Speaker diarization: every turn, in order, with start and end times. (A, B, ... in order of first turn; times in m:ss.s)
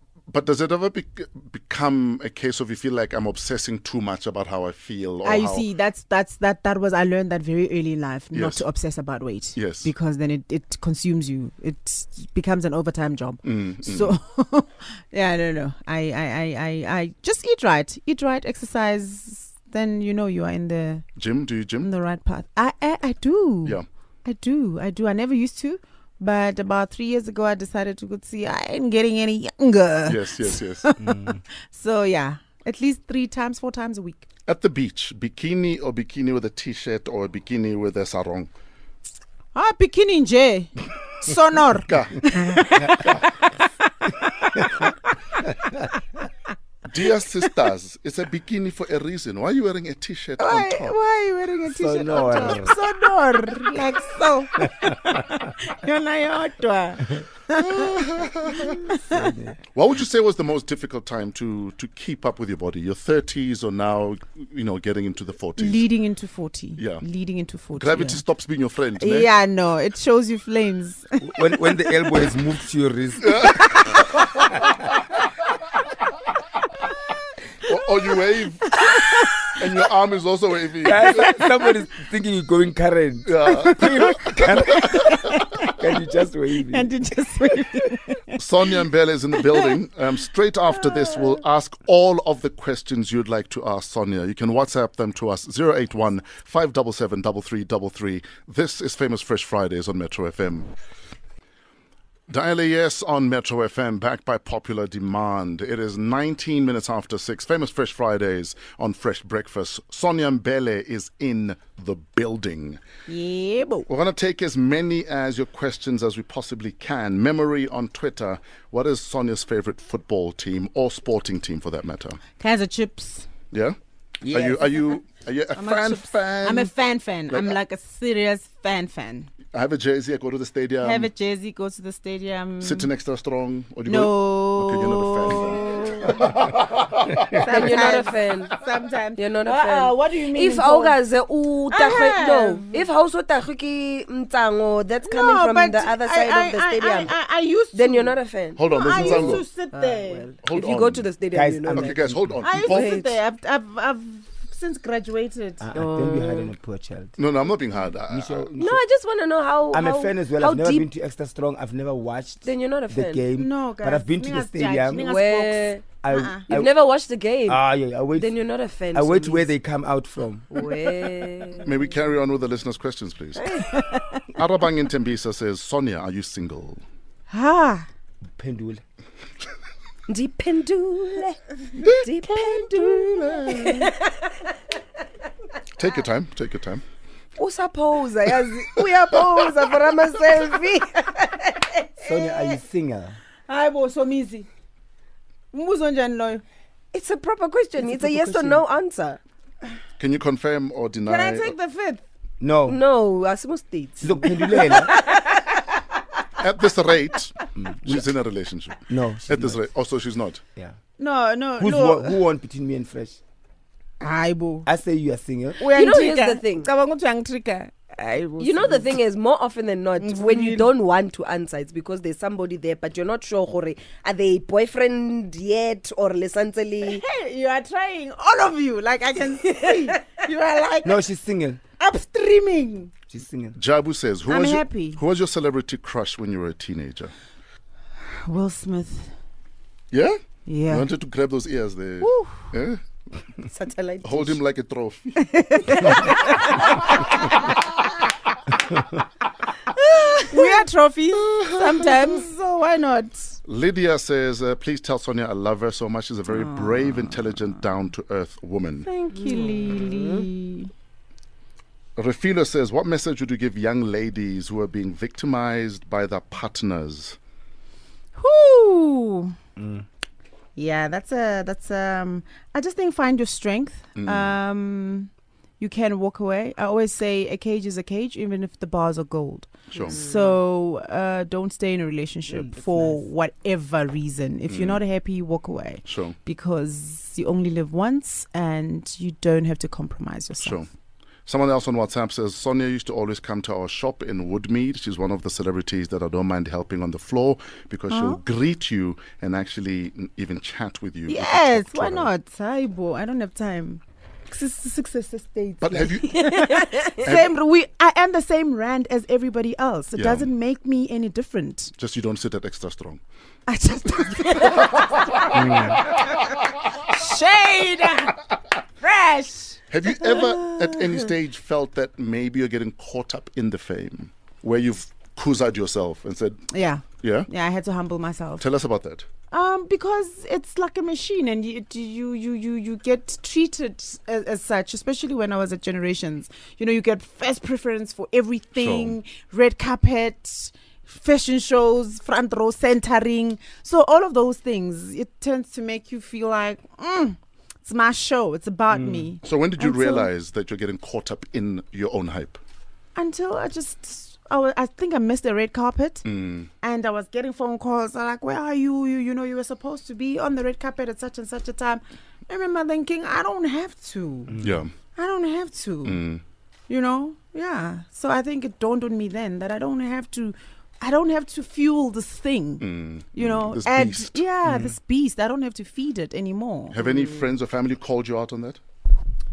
0:00.3-0:05.7 A
0:05.2-0:21.0 B
0:08.3-0:08.6 A
0:09.6-0:09.9 A
0:13.4-0:14.2 A
0:21.2-0:21.9 A
0:21.8-0:34.2 B
0:30.1-0:30.9 A
0:31.0-0:31.4 C
0:34.5-0:38.5 A
0:39.6-0:43.2 B
0:41.9-0:42.4 A
0:42.9-0:43.3 A
0:44.0-0:45.0 B
0:46.9-0:51.0 A
0:50.4-0:59.3 B
0:51.7-0:52.8 C
0:57.6-0:58.9 A
0:59.1-0:59.6 C
0:59.7-1:05.9 A
1:05.6-1:08.2 B
1:06.8-1:07.0 A
1:07.8-1:09.3 A
1:09.0-1:11.9 B
1:11.2-1:14.0 C
1:13.2-1:14.6 A
1:17.7-1:18.9 A
1:18.7-1:19.6 B
1:19.5-1:21.4 A
1:20.8-1:26.9 C
1:21.0-1:21.6 B
1:23.3-1:25.1 A
1:23.4-1:25.9 B
1:26.7-1:28.8 B
1:28.4-1:40.7 A
1:29.4-1:29.7 B
1:30.8-1:31.4 B
1:42.3-1:52.8 A
1:53.1-1:53.9 B
1:53.9-2:02.2 A
2:02.4-2:03.3 B
2:03.5-2:06.7 A
2:04.2-2:04.7 B
2:05.6-2:09.3 B
2:07.3-2:07.6 A
2:09.5-2:11.1 A
2:10.8-2:12.9 B
2:12.6-2:17.5 A
2:13.8-2:16.3 B
2:17.4-2:21.0 B
2:17.4-2:18.6 D
2:19.2-2:27.1 D
2:21.7-2:22.8 B
2:25.0-2:28.2 B
2:27.7-2:33.2 D
2:28.6-2:29.4 A
2:28.7-2:30.2 B
2:30.4-2:31.1 A
2:31.3-2:32.4 C
2:31.7-2:33.0 A
2:32.4-2:35.6 B
2:35.6-2:37.2 C
2:35.8-2:36.5 D
2:37.2-2:38.5 A
2:38.1-2:38.8 C
2:38.6-2:40.9 D
2:39.7-2:45.1 C
2:42.4-2:43.3 D
2:43.4-2:46.4 B
2:45.0-2:45.8 D
2:46.0-2:46.7 C
2:46.5-2:49.5 D
2:47.5-2:48.3 C
2:48.9-2:50.5 C
2:50.5-2:51.7 D
2:51.6-2:53.7 A
2:53.4-2:53.7 D
2:53.6-2:54.2 B
2:54.4-2:56.8 A
2:57.3-2:57.9 B
2:58.4-2:58.8 C
3:00.1-3:04.3 D
3:01.8-3:02.1 A
3:02.4-3:03.9 B
3:05.8-3:06.8 A
3:07.4-3:11.3 D
3:11.6-3:12.6 B
3:12.0-3:13.2 C
3:13.5-3:14.5 B
3:15.5-3:16.4 B
3:16.9-3:19.2 D
3:17.8-3:18.6 C
3:20.0-3:21.5 A
3:21.0-3:22.0 B
3:22.4-3:22.8 C
3:22.7-3:25.4 D
3:24.0-3:25.0 C
3:26.4-3:30.4 A
3:27.6-3:28.1 C
3:28.9-3:29.6 C
3:31.0-3:32.2 B
3:31.6-3:33.2 C
3:34.0-3:34.7 B
3:34.6-3:35.6 C
3:35.6-3:38.9 B
3:35.7-3:36.7 D
3:38.4-3:47.0 D
3:40.0-3:40.7 B
3:46.8-3:51.0 B
3:49.5-3:49.9 D
3:50.8-3:51.6 C
3:51.8-3:52.9 B
3:53.1-3:53.6 C
3:53.6-3:57.1 A
3:54.3-3:55.0 B
3:58.2-3:59.1 B
3:59.9-4:02.8 A
4:00.5-4:00.9 B
4:02.0-4:02.5 B
4:03.5-4:04.4 B
4:04.0-4:07.6 A
4:05.2-4:07.3 B
4:09.7-4:13.4 B
4:11.2-4:12.0 A
4:13.4-4:18.9 A
4:16.3-4:17.4 B
4:18.8-4:20.7 B
4:19.2-4:20.3 D
4:22.0-4:27.2 A
4:28.2-4:29.4 B
4:29.6-4:29.8 C
4:30.6-4:50.6 B
4:34.0-4:34.4 A
4:39.7-4:40.0 A
4:39.7-4:40.4 D
4:42.3-4:43.0 C
4:44.5-4:44.8 A
4:45.9-4:46.2 A
4:50.4-4:50.7 A
4:51.3-5:02.1 A
4:57.9-4:58.2 B
5:01.1-5:11.7 B
5:05.6-5:07.3 A
5:10.0-5:10.3 A
5:11.8-5:13.0 A
5:13.5-5:16.2 B
5:15.3-5:15.7 A
5:15.3-5:15.8 C
5:16.8-5:18.3 B
5:18.8-5:20.8 B
5:19.7-5:26.4 A
5:26.5-5:28.4 B
5:27.0-5:27.3 A
5:28.4-5:29.1 A
5:29.3-5:50.1 B
5:38.6-5:39.0 A
5:49.2-5:52.4 A
5:53.0-5:56.1 B
5:56.0-5:56.5 A
5:56.6-6:06.0 B
6:04.4-6:04.7 A
6:05.8-6:06.2 A
6:06.7-6:16.8 B
6:12.6-6:14.2 A
6:16.7-6:18.6 A
6:16.8-6:17.3 D